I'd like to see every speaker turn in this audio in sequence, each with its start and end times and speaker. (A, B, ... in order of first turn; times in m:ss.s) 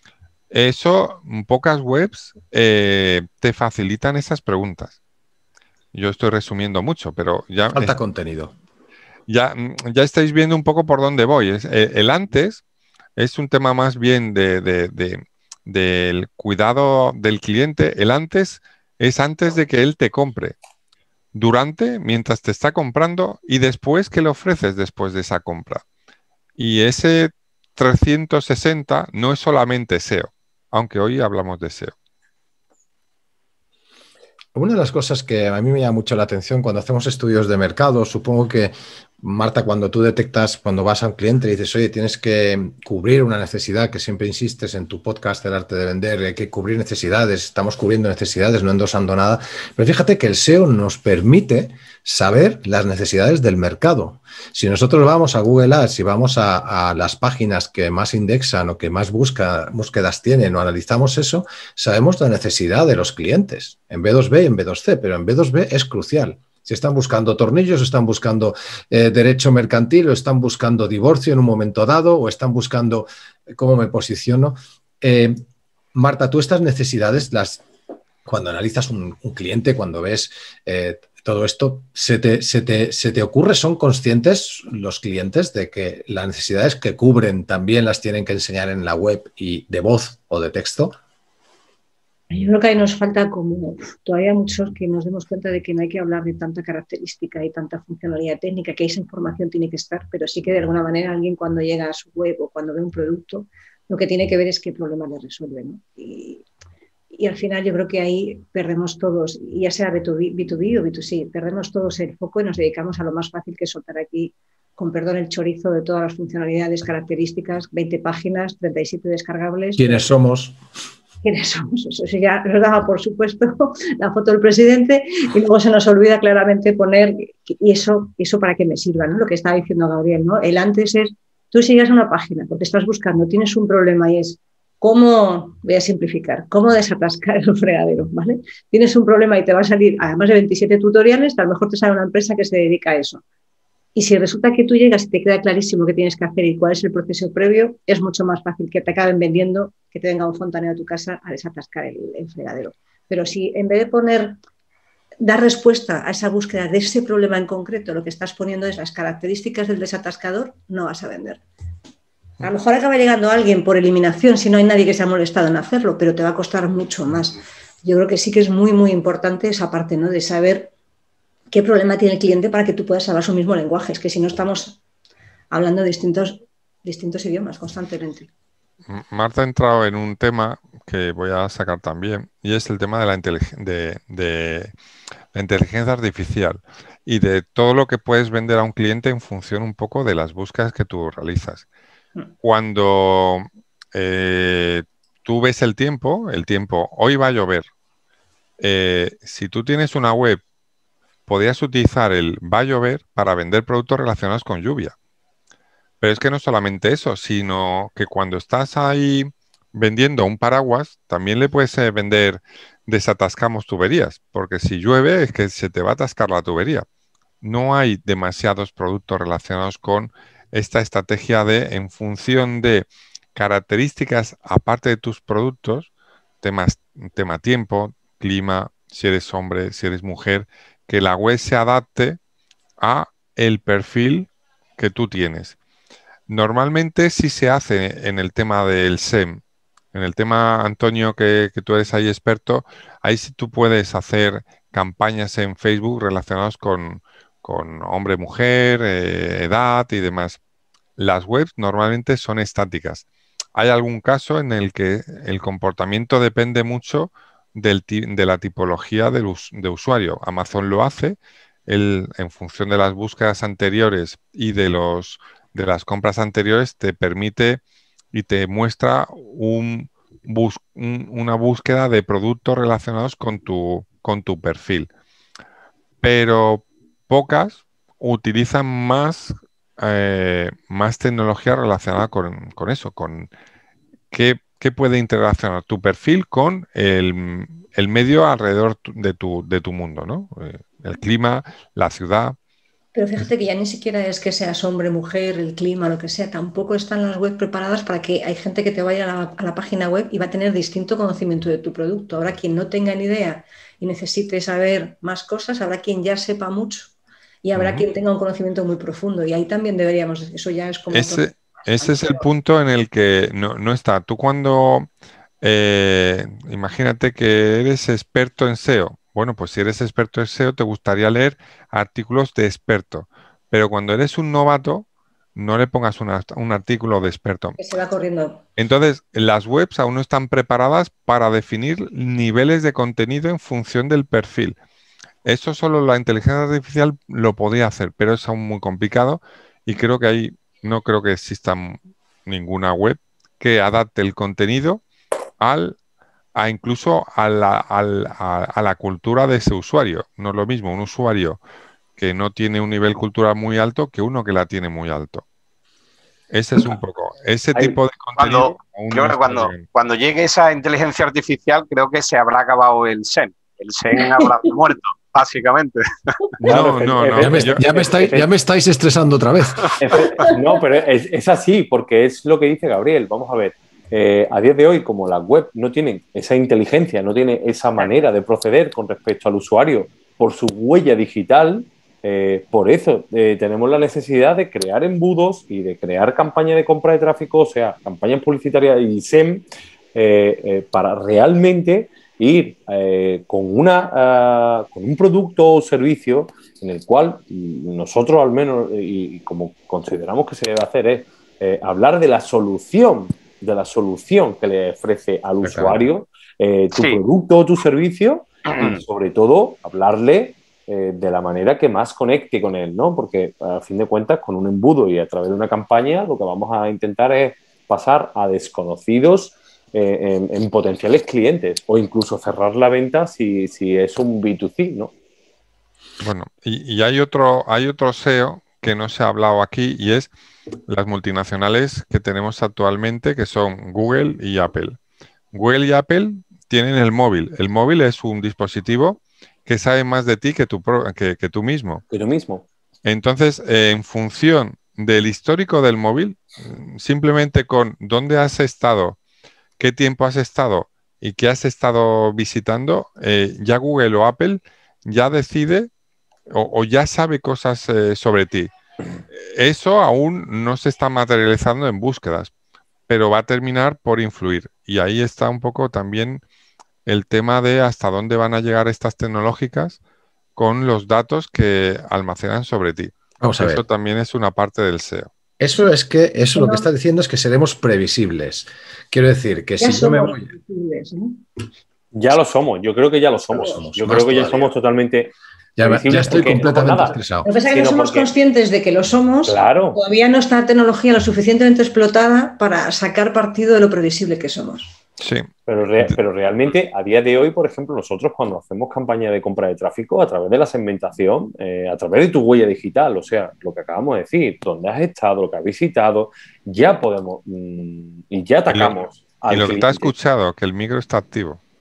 0:00.5-0:04.9 A
0:05.9-0:07.9 A
0:07.7-0:08.5 B
0:09.3-0:12.6 A
0:13.2-0:20.6 A
0:21.3-0:25.8 A
0:26.6-0:31.9 A
0:34.5-1:15.4 B
1:15.9-1:17.6 B
1:18.2-1:31.0 B
1:32.3-1:46.4 C
1:47.1-2:00.0 C
1:59.8-2:00.6 B
2:01.2-2:23.2 C
2:23.9-2:34.3 C
2:35.2-2:41.4 C
2:42.4-2:50.7 C
2:51.5-2:54.8 C
2:55.5-2:58.3 C
2:58.9-3:04.7 A
3:05.3-3:11.6 A
3:12.4-3:17.6 A
3:18.6-3:20.4 A
3:21.3-3:24.9 A
3:26.0-3:36.8 A
3:37.4-3:45.9 A
3:46.4-3:52.2 A
3:52.8-3:55.6 A
3:56.3-3:59.4 A
3:59.9-4:10.4 A
4:11.0-4:13.0 A
4:13.6-4:27.6 A
4:28.1-4:34.9 A
4:36.0-4:43.3 A
4:44.1-4:52.4 A
4:52.9-5:06.9 C
5:07.4-5:12.2 C
5:07.5-5:07.8 A
5:10.9-5:14.9 A
5:15.4-5:27.6 A
5:27.6-5:28.4 C
5:28.6-5:34.6 A
5:35.2-5:44.8 A
5:45.4-5:45.8 A
5:46.3-5:51.4 A
5:52.0-5:55.2 A
5:56.3-5:59.6 A
5:57.5-6:06.6 D
6:06.4-6:07.6 A
6:06.4-6:08.3 E
6:07.2-6:09.8 B
6:09.8-7:04.9 E
6:46.7-6:47.0 D
6:48.5-6:48.8 D
7:06.0-7:10.1 A
7:10.7-7:14.8 A
7:15.3-7:21.8 A
7:21.9-7:22.4 E
7:22.8-7:29.0 A
7:29.6-7:35.7 A
7:36.3-7:38.5 A
7:39.1-7:42.3 A
7:42.9-7:46.2 A
7:46.8-7:49.8 A
7:50.4-7:55.1 A
7:53.2-7:53.6 B
7:55.4-8:00.3 B
7:56.3-7:56.7 C
7:59.6-8:01.2 C
8:01.9-8:08.1 E
8:03.3-8:04.5 B
8:05.6-8:07.3 B
8:07.2-8:14.7 C
8:09.2-8:09.8 E
8:15.0-8:15.3 A
8:15.4-8:29.9 E
8:29.3-8:31.4 A